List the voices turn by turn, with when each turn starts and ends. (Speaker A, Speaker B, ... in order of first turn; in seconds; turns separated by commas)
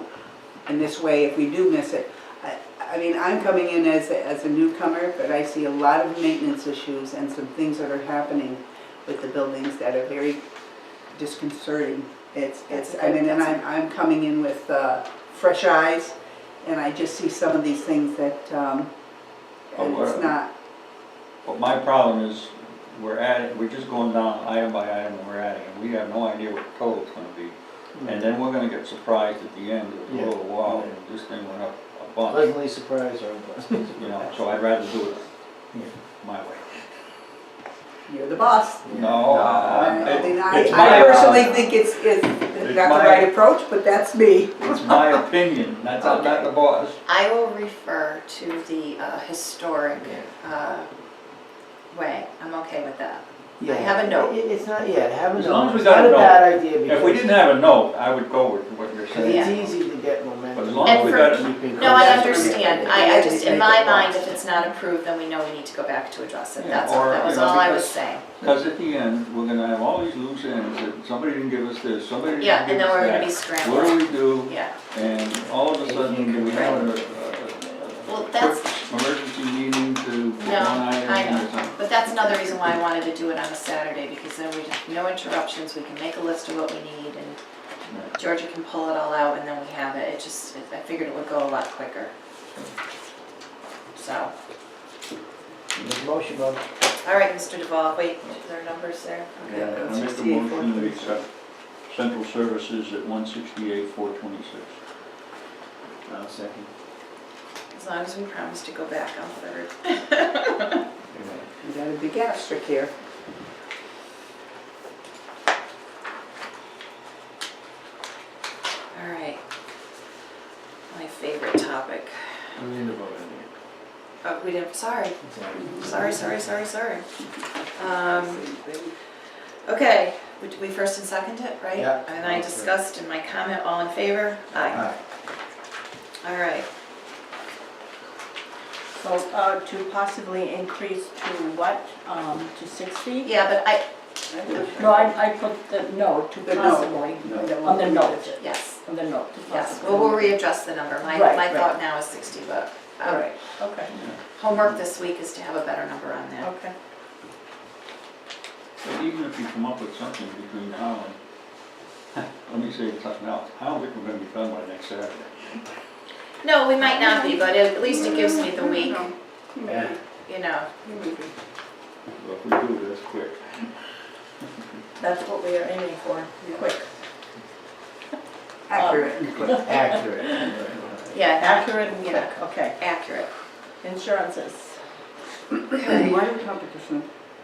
Speaker A: 0.7-10.4, Speaker A: 11.1-18.9, Speaker B: 12.7-13.6, Speaker A: 19.7-20.5, Speaker C: 19.8-20.4, Speaker C: 21.4-32.5, Speaker D: 30.1-30.9, Speaker D: 32.3-34.5, Speaker C: 33.9-36.9, Speaker A: 38.1-45.3, Speaker D: 38.9-40.8, Speaker C: 38.9-43.4, Speaker C: 44.6-47.0, Speaker B: 47.0-50.9, Speaker B: 51.9-54.4, Speaker D: 53.6-57.3, Speaker C: 55.3-59.8, Speaker D: 59.1-64.1, Speaker B: 59.2-59.6, Speaker C: 60.5-62.4, Speaker B: 60.8-68.2, Speaker A: 61.9-64.4, Speaker C: 66.6-82.5, Speaker B: 72.4-74.8, Speaker D: 75.2-77.2, Speaker B: 76.5-76.8, Speaker B: 78.1-78.6, Speaker B: 80.4-87.4, Speaker B: 88.1-92.1, Speaker B: 94.0-94.3, Speaker D: 95.8-96.7, Speaker B: 97.0-99.8, Speaker C: 99.5-101.2, Speaker A: 99.6-101.2, Speaker C: 101.9-104.7, Speaker D: 106.1-106.7, Speaker B: 107.7-110.8, Speaker D: 111.1-111.5, Speaker A: 111.6-112.9, Speaker B: 118.9-119.4, Speaker B: 120.9-122.4, Speaker D: 122.5-123.5, Speaker B: 124.2-125.2, Speaker D: 125.2-126.3, Speaker B: 125.7-127.0, Speaker B: 127.7-128.4, Speaker A: 128.0-128.9, Speaker B: 129.6-134.9, Speaker D: 131.8-132.7, Speaker D: 134.6-135.0, Speaker B: 136.2-136.7, Speaker E: 139.0-143.3, Speaker B: 143.2-143.8, Speaker D: 144.5-144.8, Speaker E: 144.7-150.4, Speaker A: 146.4-148.3, Speaker B: 148.4-148.8, Speaker B: 149.5-153.4, Speaker E: 151.0-151.7, Speaker E: 153.1-154.0, Speaker B: 154.3-156.5, Speaker E: 156.4-156.7, Speaker C: 158.8-161.2, Speaker C: 162.1-165.6, Speaker B: 166.4-169.1, Speaker A: 166.8-170.0, Speaker D: 169.7-169.9, Speaker B: 170.2-170.7, Speaker A: 170.8-171.3, Speaker C: 172.2-173.7, Speaker E: 175.0-176.9, Speaker A: 178.7-179.6, Speaker E: 178.8-180.6, Speaker D: 179.5-181.2, Speaker B: 181.1-183.3, Speaker E: 181.4-182.8, Speaker E: 183.8-184.8, Speaker B: 185.7-186.1, Speaker A: 185.7-187.1